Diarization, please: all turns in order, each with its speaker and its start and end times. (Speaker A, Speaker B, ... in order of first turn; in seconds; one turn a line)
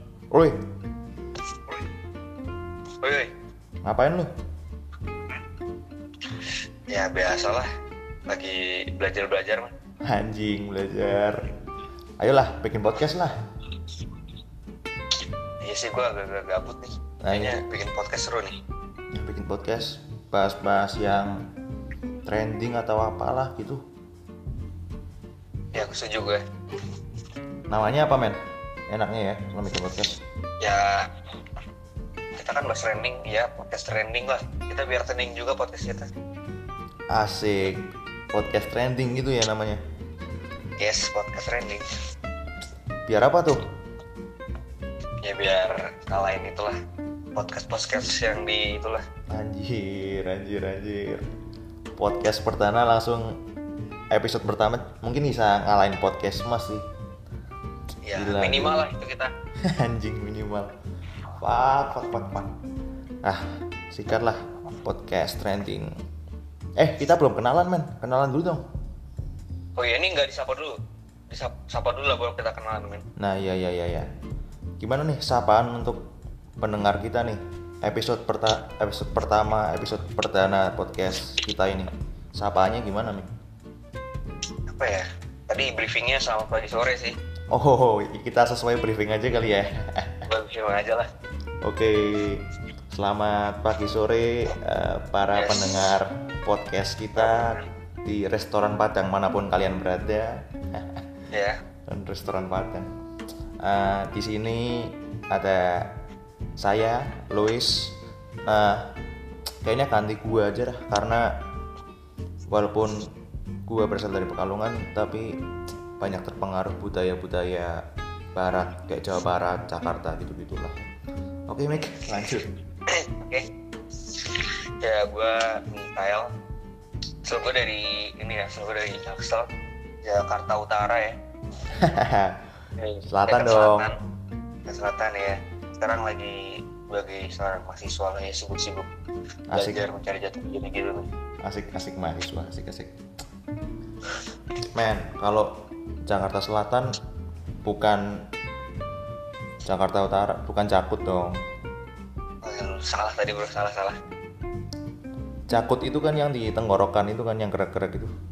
Speaker A: 0.3-0.6
Speaker B: 3.0-3.3
Speaker A: 3.8-4.3
Speaker B: 6.9-7.7
Speaker B: 8.3-9.7
Speaker A: 10.0-11.4
Speaker A: 12.2-13.4
Speaker B: 15.6-18.6
Speaker A: 17.2-17.6
Speaker A: 19.1-21.4
Speaker A: 22.2-23.8
Speaker B: 25.7-26.4
Speaker A: 27.7-28.4
Speaker A: 28.9-30.2
Speaker B: 30.6-31.1
Speaker B: 32.4-36.1
Speaker A: 37.1-39.8
Speaker B: 40.8-41.9
Speaker A: 43.1-43.6
Speaker B: 45.2-46.8
Speaker B: 47.3-49.0
Speaker A: 49.3-51.2
Speaker A: 52.0-53.4
Speaker A: 54.1-56.8
Speaker B: 58.0-59.3
Speaker A: 58.1-58.9
Speaker A: 59.6-60.7
Speaker A: 61.4-62.5
Speaker A: 63.2-65.9
Speaker A: 66.8-68.7
Speaker B: 69.8-70.8
Speaker B: 71.3-73.0
Speaker A: 73.2-74.1
Speaker A: 74.8-76.0
Speaker A: 76.6-83.3
Speaker B: 84.7-87.2
Speaker A: 87.5-90.2
Speaker B: 90.2-91.1
Speaker A: 91.6-101.1
Speaker B: 95.3-95.9
Speaker B: 97.2-97.7
Speaker B: 101.3-101.6
Speaker A: 101.9-102.9
Speaker A: 103.6-105.9
Speaker A: 106.6-108.9
Speaker A: 109.6-111.3
Speaker A: 112.5-113.1
Speaker A: 113.7-115.4
Speaker A: 116.0-117.8
Speaker A: 118.3-120.9
Speaker A: 121.5-122.5
Speaker B: 122.9-123.5
Speaker B: 124.2-126.3
Speaker B: 127.2-129.5
Speaker B: 130.0-131.2
Speaker A: 131.7-132.4
Speaker B: 132.8-134.0
Speaker A: 133.1-133.9
Speaker B: 134.7-138.9
Speaker A: 139.5-139.8
Speaker B: 139.5-141.1
Speaker A: 141.4-143.0
Speaker A: 144.7-147.0
Speaker A: 147.6-148.2
Speaker A: 149.6-151.4
Speaker B: 152.4-154.0
Speaker A: 155.5-158.1